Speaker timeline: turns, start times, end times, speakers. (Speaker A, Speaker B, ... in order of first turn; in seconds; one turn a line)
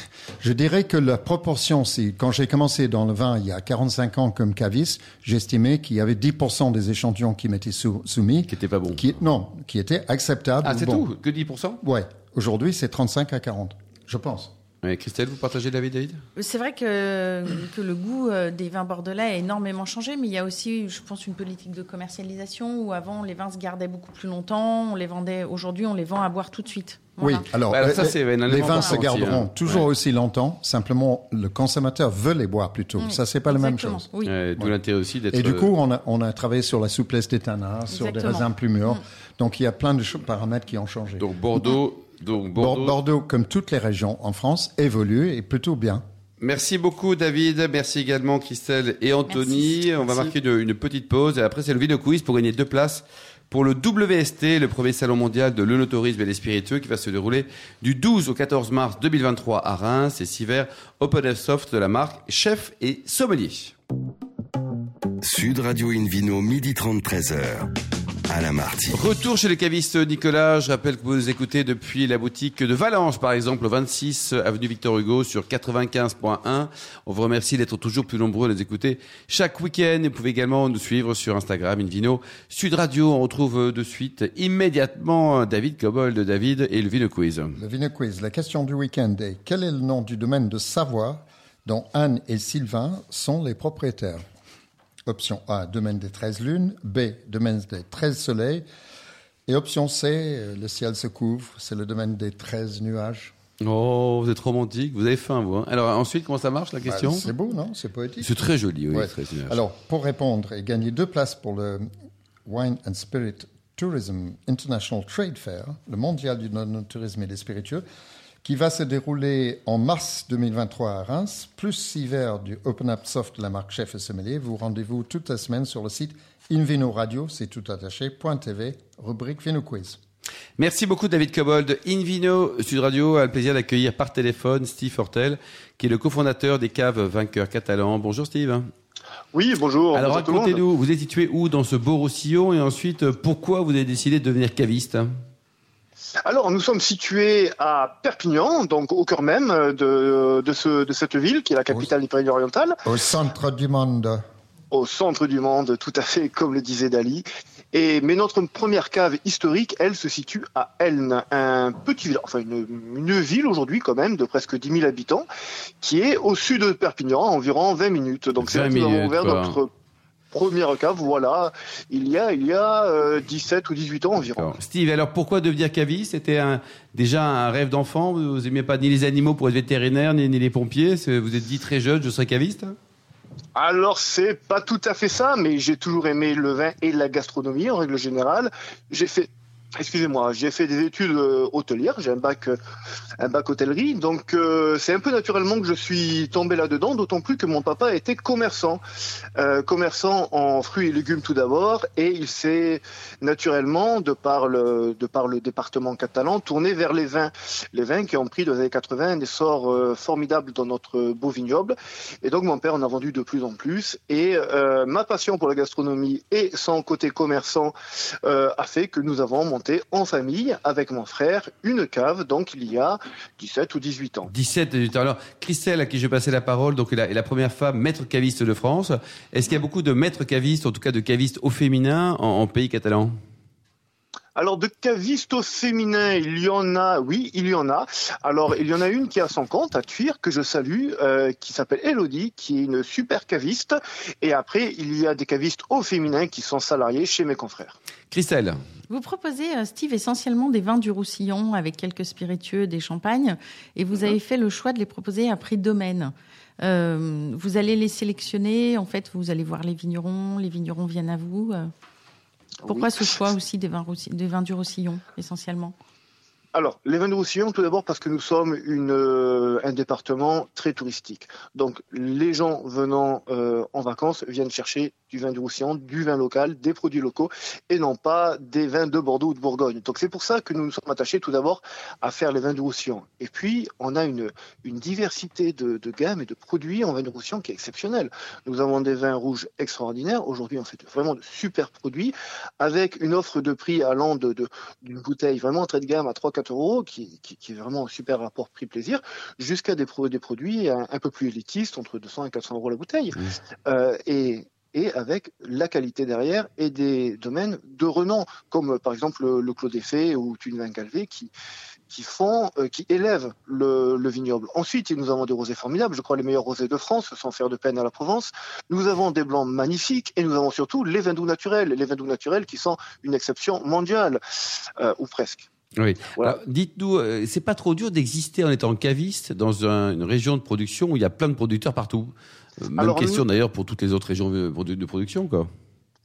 Speaker A: 0.4-11.1
Speaker B: 8.5-9.0
Speaker B: 10.6-11.8
Speaker A: 11.8-14.5
Speaker B: 14.8-16.2
Speaker C: 16.4-27.4
Speaker A: 27.2-34.0
Speaker B: 27.7-29.8
Speaker C: 33.0-34.3
Speaker B: 34.2-35.7
Speaker A: 35.3-41.2
Speaker C: 37.9-39.0
Speaker B: 41.2-43.0
Speaker A: 42.5-46.0
Speaker B: 46.4-63.7
Speaker C: 49.3-50.3
Speaker D: 65.2-67.7
Speaker D: 68.3-69.0
Speaker B: 68.9-87.6
Speaker A: 87.5-94.2
Speaker A: 95.1-98.6
Speaker A: 99.5-103.3
Speaker B: 103.6-107.2
Speaker A: 106.8-108.3
Speaker B: 108.2-109.6
Speaker A: 108.9-111.9
Speaker A: 112.5-117.8
Speaker A: 118.4-130.0
Speaker B: 130.6-138.7
Speaker E: 139.3-140.6
Speaker B: 139.9-145.1
Speaker E: 146.2-152.8
Speaker A: 152.8-154.2
Speaker E: 154.7-165.3
Speaker E: 165.8-169.7
Speaker B: 168.4-169.6
Speaker E: 170.3-174.6
Speaker B: 174.4-182.8
Speaker E: 183.6-192.6
Speaker E: 193.2-198.8
Speaker E: 199.4-224.3
Speaker B: 224.3-233.1
Speaker E: 234.3-247.8
Speaker B: 248.1-248.6
Speaker C: 248.9-261.7
Speaker C: 262.7-265.7
Speaker E: 266.5-311.3
Speaker E: 311.9-325.5
Speaker B: 325.8-335.5
Speaker E: 332.8-333.2